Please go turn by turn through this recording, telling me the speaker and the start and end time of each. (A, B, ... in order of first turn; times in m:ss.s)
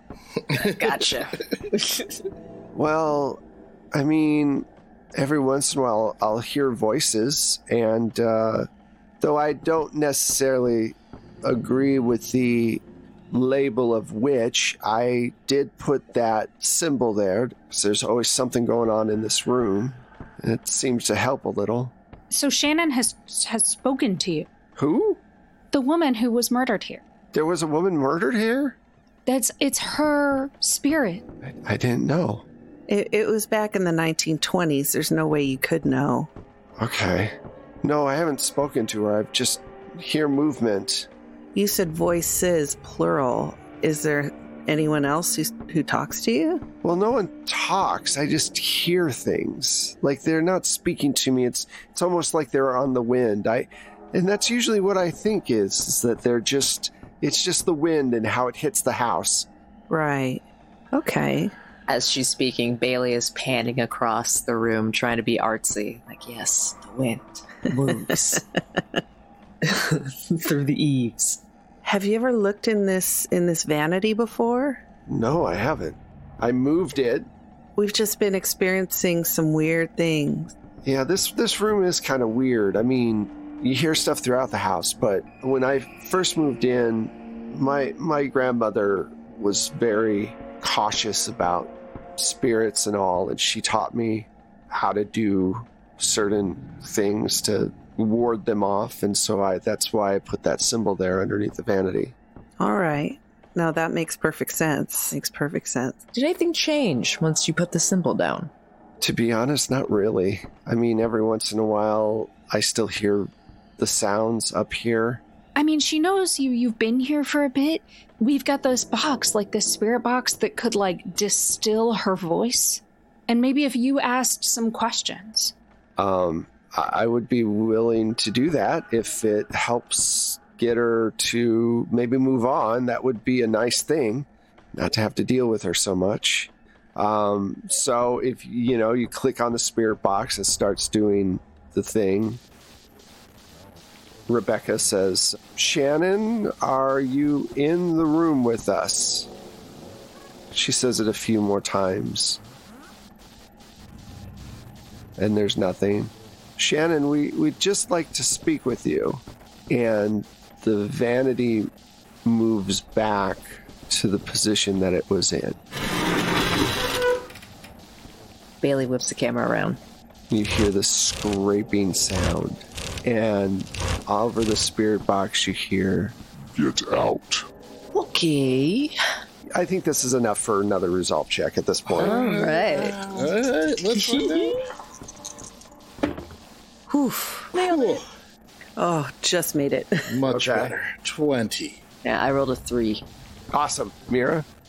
0:00.4-0:01.4 A
0:00.5-0:02.1 B
0:02.7-0:03.4 C
0:03.9-0:08.7 C
0:09.2-0:21.9 C
0:22.3-0:24.5 D
0:24.8-0:25.2 C
0:25.7-0:27.0 D
0:27.3-0:28.8 C
0:29.2-0:31.2 D
0:31.4-0:32.4 C
0:32.9-0:36.3 E
0:36.8-0:41.1 C
0:41.5-0:46.6 E
0:46.8-0:59.5 C
0:59.9-1:01.5 E
1:01.9-1:08.4 B
1:07.7-1:08.4 E
1:09.6-1:11.4 B
1:11.8-1:14.8 E
1:15.1-1:17.3 C
1:17.8-1:20.5 E
1:20.8-1:42.1 C
1:42.6-1:46.0 E
1:46.1-1:48.5 B
1:49.0-1:55.2 C
1:55.6-2:05.5 D
2:06.0-2:22.4 C
2:24.3-2:29.3 C
2:30.5-2:32.4 C
2:35.2-2:41.7 C
2:42.2-2:45.6 C
2:48.6-2:49.8 B
2:50.3-2:57.3 C
2:57.9-2:59.0 B
2:59.5-3:02.2 C
3:01.9-3:04.6 A
3:02.0-3:03.2 B
3:03.9-3:04.5 B
3:06.9-3:07.9 B
3:07.5-3:08.1 A
3:08.8-3:10.2 E
3:10.1-3:11.8 A
3:10.3-3:10.7 C
3:12.0-3:13.0 B
3:13.5-3:14.5 C